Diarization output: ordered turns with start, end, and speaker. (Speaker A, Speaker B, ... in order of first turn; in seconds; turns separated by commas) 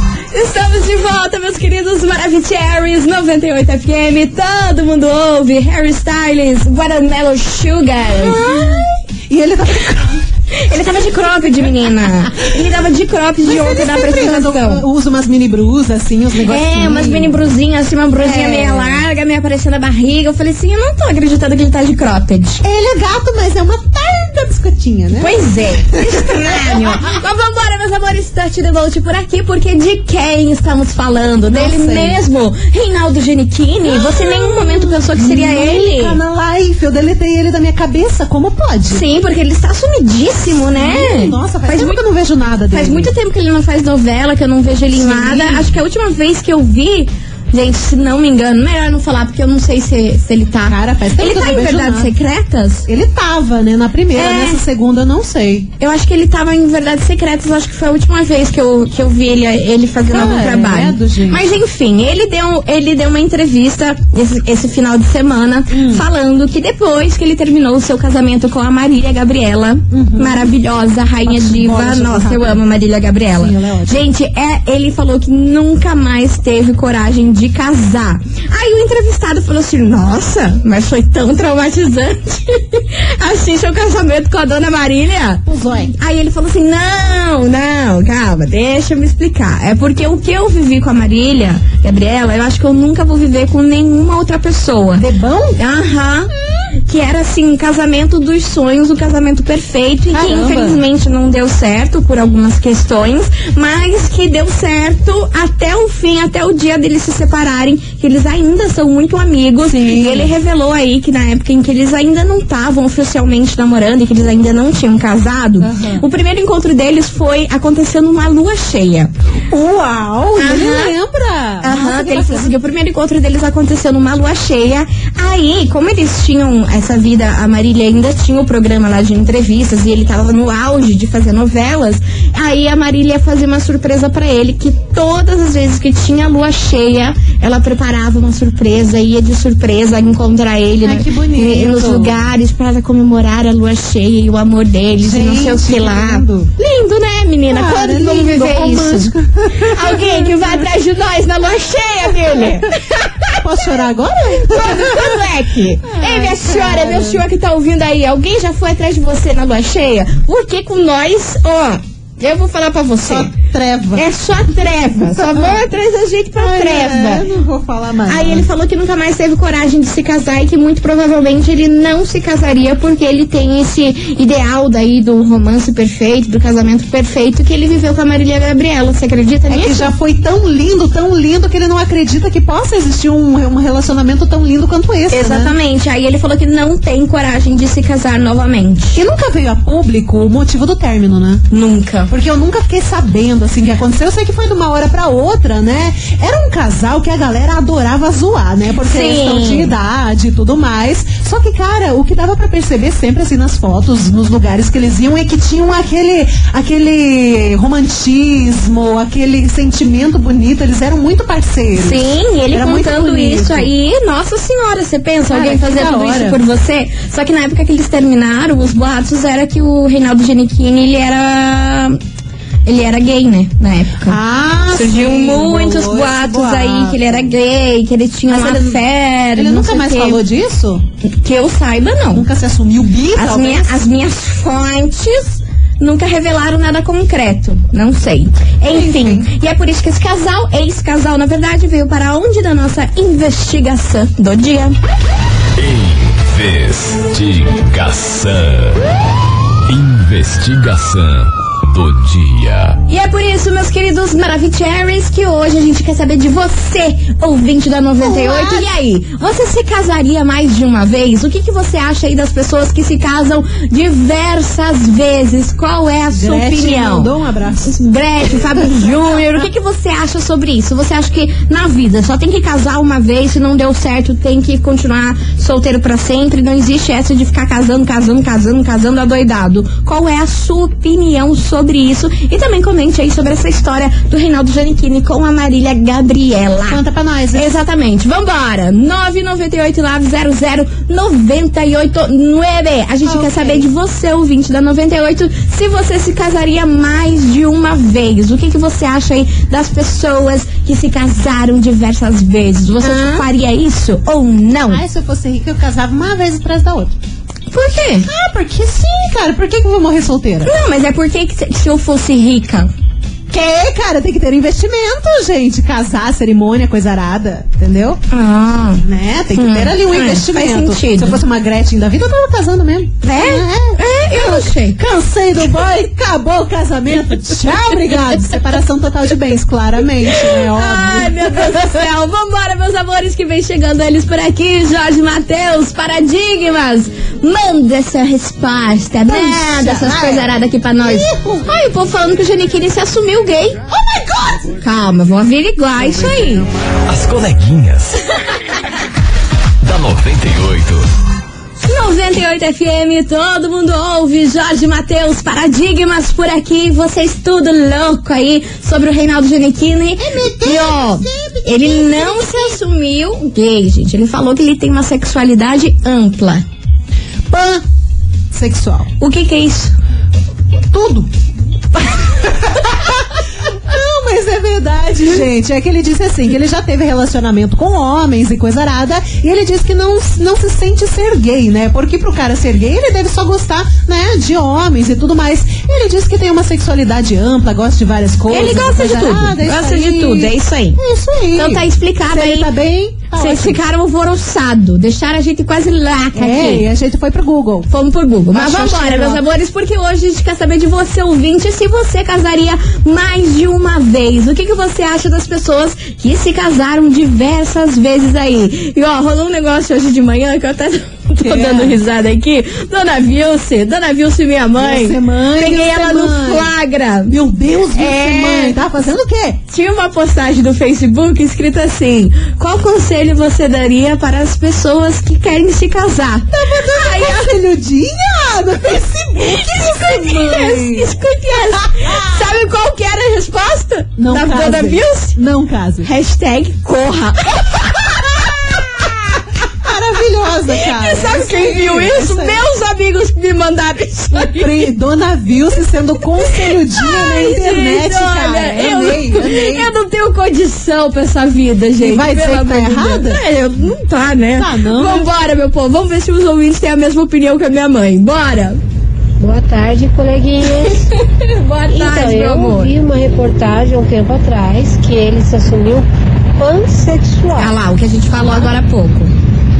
Speaker A: 0.3-8.8, Speaker B: 8.1-10.2, Speaker A: 10.5-14.8, Speaker B: 13.4-17.4, Speaker A: 16.4-22.6, Speaker B: 18.2-19.0, Speaker B: 22.6-25.4, Speaker A: 25.1-36.2, Speaker B: 26.3-27.0, Speaker B: 31.5-32.2, Speaker B: 33.8-39.0, Speaker A: 38.9-42.0, Speaker B: 40.7-43.1, Speaker A: 42.7-52.9, Speaker B: 44.9-45.7, Speaker B: 50.6-52.1, Speaker B: 52.9-55.7, Speaker A: 54.1-54.6, Speaker A: 55.8-85.4, Speaker B: 60.1-61.5, Speaker B: 65.7-66.0, Speaker B: 69.9-70.4, Speaker B: 71.2-72.7, Speaker B: 73.4-74.0, Speaker B: 85.4-85.9, Speaker A: 86.0-95.0, Speaker B: 95.0-95.6, Speaker A: 95.6-96.3, Speaker A: 96.8-119.1, Speaker B: 100.1-100.8, Speaker B: 109.6-110.3, Speaker B: 115.6-116.0, Speaker B: 119.5-122.5, Speaker A: 120.3-120.9, Speaker A: 121.6-149.1, Speaker B: 140.8-142.2, Speaker B: 145.0-146.5, Speaker B: 147.5-150.6, Speaker A: 149.7-153.4, Speaker B: 153.3-155.2, Speaker A: 154.5-163.3, Speaker B: 155.9-157.2, Speaker B: 163.1-164.0, Speaker A: 163.9-167.2, Speaker B: 165.1-165.6, Speaker B: 166.3-168.5, Speaker A: 168.1-179.9, Speaker B: 179.5-185.5, Speaker A: 185.1-189.0, Speaker B: 188.9-191.4, Speaker A: 191.5-192.1, Speaker B: 192.1-213.7, Speaker A: 198.8-199.7, Speaker A: 211.8-222.0, Speaker B: 215.3-216.4, Speaker A: 222.7-224.2, Speaker B: 224.1-227.3, Speaker A: 224.7-230.2, Speaker B: 228.3-228.8, Speaker B: 229.3-230.8, Speaker A: 231.0-232.2, Speaker B: 232.1-233.7, Speaker A: 233.1-244.8, Speaker B: 238.7-239.3, Speaker C: 245.6-248.8, Speaker C: 249.7-252.8, Speaker A: 252.9-267.1, Speaker B: 258.0-258.7, Speaker B: 266.1-267.8, Speaker A: 267.6-286.8, Speaker B: 268.6-269.1, Speaker B: 286.7-287.5, Speaker A: 287.3-304.8, Speaker B: 293.0-293.6, Speaker B: 302.8-303.2, Speaker B: 304.7-306.9, Speaker A: 307.5-308.1, Speaker B: 308.1-310.5, Speaker A: 310.4-312.7, Speaker B: 313.3-318.0, Speaker A: 318.1-318.8, Speaker B: 318.8-331.8, Speaker A: 319.3-321.2, Speaker A: 323.0-324.8, Speaker A: 330.2-343.6, Speaker B: 339.1-341.5, Speaker B: 343.7-344.5, Speaker A: 344.6-346.5, Speaker B: 345.8-346.6, Speaker C: 346.9-348.0, Speaker C: 349.6-350.9, Speaker A: 351.6-366.4, Speaker B: 360.0-362.6, Speaker B: 367.3-367.6, Speaker B: 368.3-368.9, Speaker A: 369.0-369.7, Speaker B: 370.7-371.1, Speaker B: 372.2-373.1, Speaker B: 373.7-393.6, Speaker A: 388.3-390.8, Speaker A: 391.3-392.5, Speaker A: 393.1-396.6, Speaker B: 396.1-397.7, Speaker A: 397.7-417.1, Speaker B: 398.3-399.2, Speaker B: 411.2-411.8, Speaker B: 414.6-416.5, Speaker B: 417.1-419.4, Speaker A: 417.7-418.6, Speaker A: 419.5-427.3, Speaker B: 426.3-430.9, Speaker A: 429.2-435.2, Speaker B: 431.6-432.3, Speaker B: 434.0-435.9, Speaker A: 435.8-438.2, Speaker B: 439.6-442.4, Speaker A: 440.6-444.7, Speaker B: 444.1-449.7, Speaker A: 446.2-458.6, Speaker B: 451.8-453.2, Speaker B: 454.4-455.0, Speaker D: 459.2-460.9, Speaker A: 460.7-462.7, Speaker D: 461.7-467.5, Speaker A: 467.4-469.1, Speaker B: 468.2-468.4